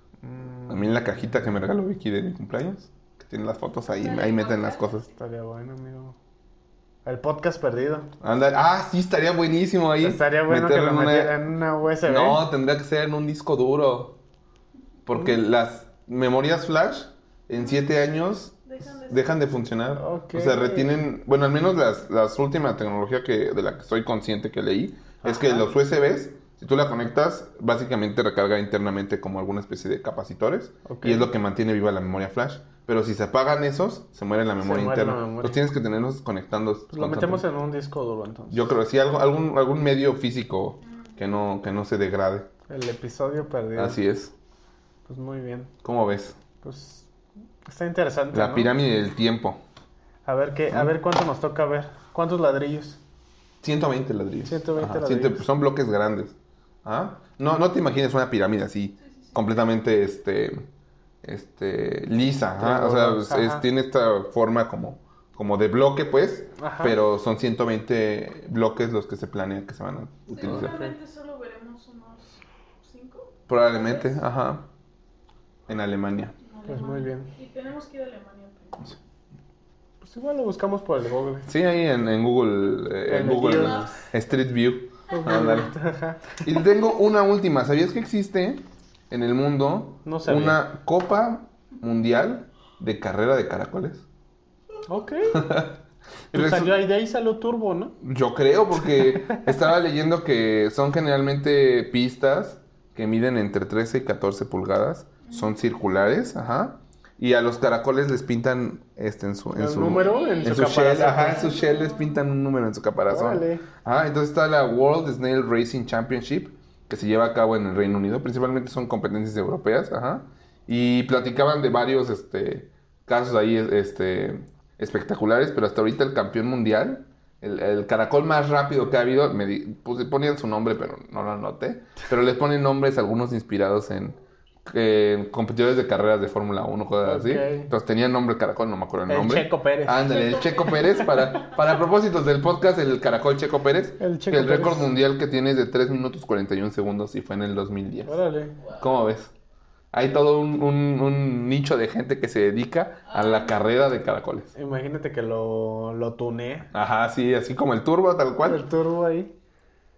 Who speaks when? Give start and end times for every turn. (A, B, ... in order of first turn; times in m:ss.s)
0:00.2-0:01.2 A
0:00.7-0:05.1 B
0:03.9-0:05.1 C
0:05.1-0:06.2 A
0:07.0-0:08.1 A
0:08.2-0:11.3 B
0:10.0-0:12.4 A
0:12.0-0:14.2 B
0:15.0-0:37.4 B
0:18.6-0:19.4 C
0:20.0-0:20.9 A
0:25.2-0:25.6 A
0:30.8-0:31.3 A
0:34.6-0:35.6 A
0:36.9-0:38.7 A
0:38.5-0:42.5 B
0:40.8-0:41.2 C
0:42.7-0:44.0 A
0:43.7-0:44.3 B
0:45.0-0:45.7 A
0:45.8-0:46.4 B
0:46.6-0:47.1 A
0:47.6-0:48.7 A
0:48.3-0:49.6 B
0:50.2-0:53.0 A
0:53.6-1:00.6 B
0:54.4-0:55.5 A
0:59.0-0:59.4 C
1:01.2-1:10.8 B
1:02.6-1:03.6 A
1:06.6-1:07.0 A
1:10.3-1:14.2 C
1:10.4-1:10.9 A
1:13.5-1:14.6 B
1:15.7-1:16.3 B
1:16.4-1:19.0 C
1:16.7-1:17.3 A
1:20.0-1:21.5 A
1:21.5-1:25.7 B
1:23.1-1:24.0 A
1:23.4-1:24.0 C
1:25.1-1:26.4 A
1:26.4-1:34.0 B
1:30.0-1:30.6 A
1:34.9-1:35.4 A
1:35.3-1:36.8 B
1:36.3-1:37.9 A
1:38.0-2:28.2 B
1:38.9-1:39.5 A
1:45.2-1:45.5 C
1:49.6-1:51.5 A
1:49.9-1:52.2 C
1:53.1-1:53.6 A
2:17.0-2:17.7 A
2:19.1-2:20.2 A
2:20.0-2:21.6 C
2:24.0-2:24.9 A
2:28.0-2:28.6 A
2:28.6-2:28.9 C
2:28.8-2:29.3 B
2:29.9-2:34.5 B
2:33.0-2:33.6 C
2:34.5-2:36.7 A
2:36.7-2:38.6 B
2:38.4-2:39.3 A